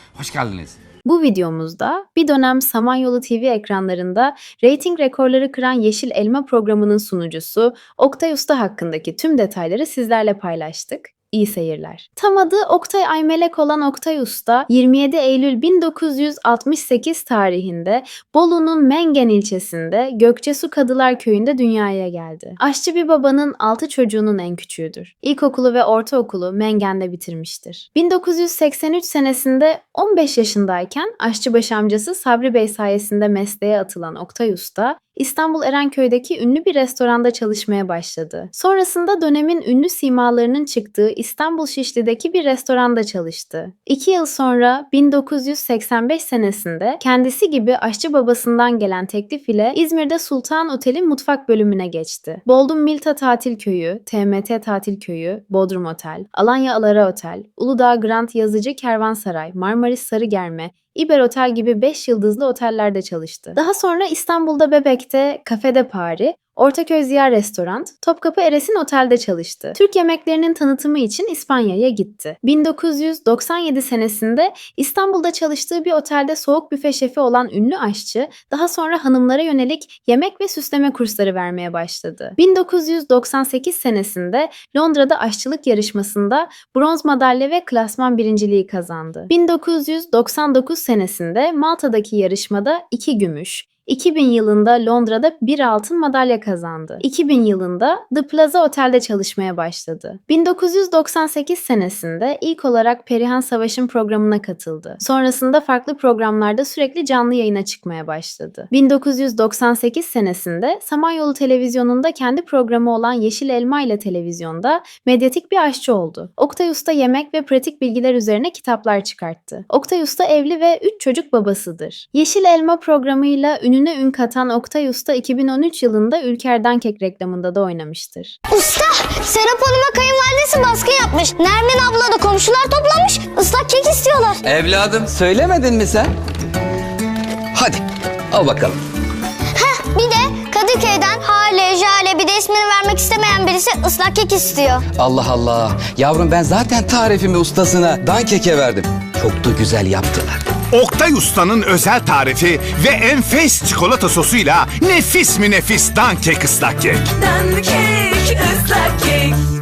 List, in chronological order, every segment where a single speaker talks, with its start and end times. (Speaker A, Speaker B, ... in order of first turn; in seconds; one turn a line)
Speaker A: 1.1-128.4
Speaker B: 128.5-134.4
Speaker C: 134.4-136.1
Speaker C: 137.5-138.8
Speaker B: 139.6-144.9
Speaker C: 144.9-150.4
Speaker D: 150.7-157.1
Speaker E: 157.2-159.4